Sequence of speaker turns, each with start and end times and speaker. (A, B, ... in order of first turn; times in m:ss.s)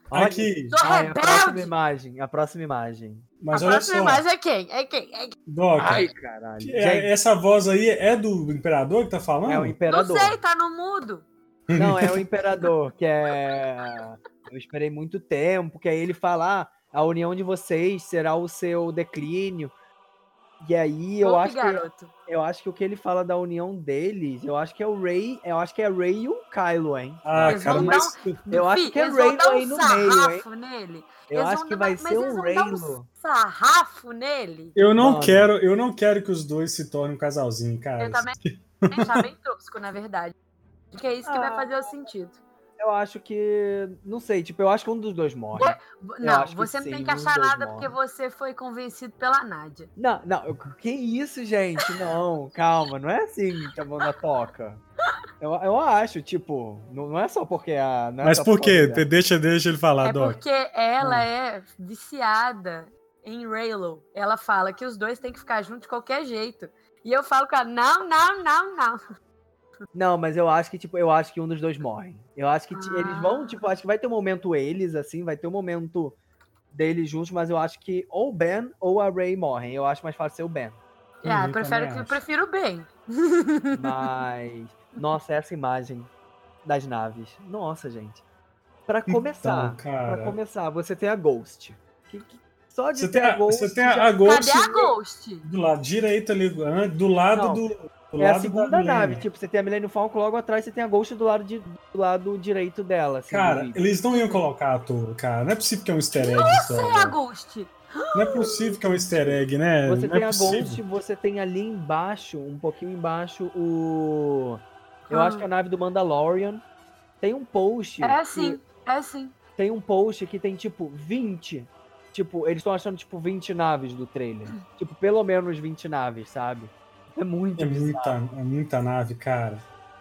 0:00.1-0:03.2 A
0:00.1-0:00.7 B
0:00.7-0:01.7 C
0:03.4-0:04.2 B
0:03.5-0:05.3 C
0:05.5-0:09.8 B
0:05.8-0:07.1 A
0:09.4-0:10.4 A
0:09.9-0:11.2 C
0:11.7-0:12.1 B
0:11.7-0:19.7 A
0:20.6-0:30.4 A
0:21.2-0:22.1 C
0:27.2-0:28.4 B
0:27.5-0:34.8 C
0:31.3-0:33.1 A
0:34.8-0:39.2 B
0:35.0-0:35.5 A
0:38.0-0:38.3 C
0:38.9-0:40.3 C
0:40.9-0:42.4 C
0:41.2-0:41.8 A
0:42.8-0:47.9 A
0:45.6-0:49.9 C
0:50.0-0:54.8 A
0:55.4-0:59.0 A
0:58.2-1:00.4 B
1:00.0-1:09.0 C
1:09.9-1:16.2 A
1:12.7-1:13.6 C
1:16.7-1:20.8 A
1:21.2-1:24.0 C
1:21.2-1:22.2 B
1:23.7-1:26.1 A
1:26.6-1:28.2 A
1:28.9-1:34.2 A
1:29.1-1:30.4 B
1:32.9-1:34.7 B
1:34.2-1:35.4 C
1:35.4-1:39.2 B
1:37.3-1:37.6 A
1:38.2-1:43.8 A
1:43.3-1:47.1 B
1:44.1-1:44.4 C
1:46.1-1:48.8 C
1:48.1-1:50.8 B
1:49.1-1:56.6 A
1:55.1-1:55.4 C
1:57.2-1:58.6 A
1:58.0-1:59.3 C
1:59.6-2:08.2 A
2:07.6-2:09.6 B